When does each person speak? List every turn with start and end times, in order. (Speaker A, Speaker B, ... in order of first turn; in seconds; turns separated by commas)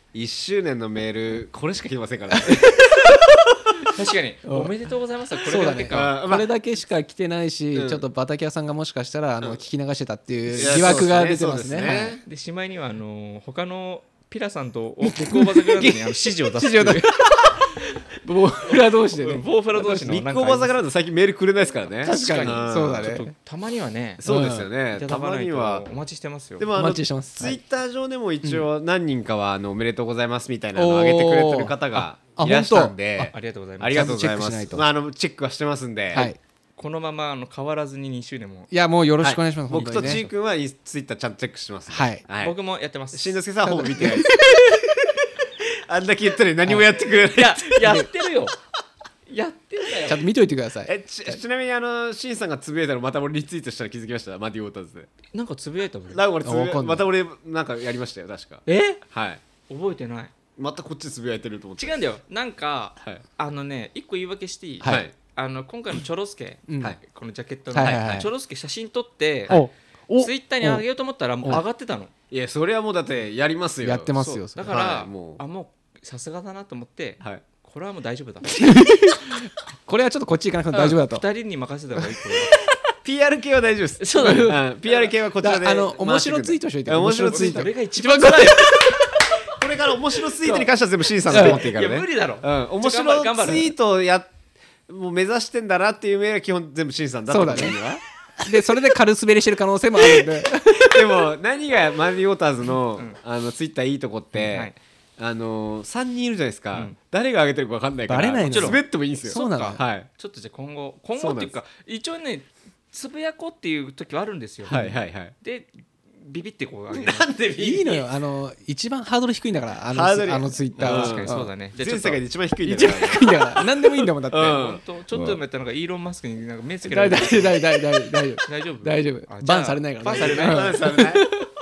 Speaker A: 0.1-3.7, Speaker B: 2.3-3.1, Speaker C: 3.9-6.1, Speaker B: 4.5-4.7, Speaker B: 5.4-12.2, Speaker A: 5.9-6.5, Speaker A: 7.7-8.0, Speaker A: 10.5-12.2, Speaker C: 10.6-11.1, Speaker C: 12.2-17.1, Speaker B: 15.1-17.5, Speaker B: 18.2-20.1, Speaker C: 18.7-20.8, Speaker A: 19.9-23.1, Speaker B: 22.0-23.3, Speaker C: 22.0-24.2, Speaker A: 24.2-25.8, Speaker B: 24.2-24.7, Speaker C: 24.9-26.7, Speaker A: 26.6-36.3, Speaker B: 26.7-27.6, Speaker B: 30.7-33.3, Speaker C: 33.3-34.1, Speaker B: 33.9-34.8, Speaker B: 36.1-36.4, Speaker C: 36.1-38.7, Speaker B: 38.7-40.2, Speaker A: 39.2-42.5, Speaker C: 39.7-40.3, Speaker B: 41.9-42.2, Speaker C: 42.4-43.4, Speaker A: 43.1-48.0, Speaker B: 43.6-44.5, Speaker C: 47.3-48.5, Speaker B: 47.8-48.1, Speaker C: 49.3-50.2, Speaker B: 50.1-51.4, Speaker A: 50.8-55.1, Speaker C: 55.3-56.2, Speaker A: 56.1-59.4, Speaker B: 56.4-57.0, Speaker C: 58.6-59.0, Speaker C: 59.7-60.3, Speaker A: 60.6-62.0, Speaker C: 61.8-69.6, Speaker A: 64.8-65.1, Speaker B: 66.7-67.0, Speaker B: 67.7-68.3, Speaker A: 67.8-68.2, Speaker B: 69.5-70.8, Speaker C: 70.2-72.1, Speaker A: 72.3-75.4, Speaker B: 73.8-74.6, Speaker C: 74.2-78.6, Speaker B: 78.5-81.2, Speaker C: 80.7-82.6, Speaker A: 83.0-87.7, Speaker C: 84.0-85.1, Speaker B: 84.2-84.6, Speaker B: 85.4-89.1, Speaker C: 87.2-88.8, Speaker A: 89.5-94.3, Speaker C: 91.3-93.7, Speaker B: 91.3-91.6, Speaker A: 94.9-98.0, Speaker B: 97.3-97.8, Speaker B: 98.4-101.3, Speaker A: 100.0-110.1, Speaker C: 104.3-104.8, Speaker B: 108.1-109.8, Speaker C: 108.5-117.3, Speaker A: 111.2-111.5, Speaker A: 114.7-115.3, Speaker A: 116.9-118.0, Speaker B: 117.6-121.5, Speaker A: 119.9-123.4, Speaker C: 120.8-122.2, Speaker B: 122.6-124.6, Speaker A: 124.3-125.4, Speaker C: 124.4-127.6, Speaker B: 126.8-131.4, Speaker C: 128.4-130.8, Speaker A: 130.2-131.3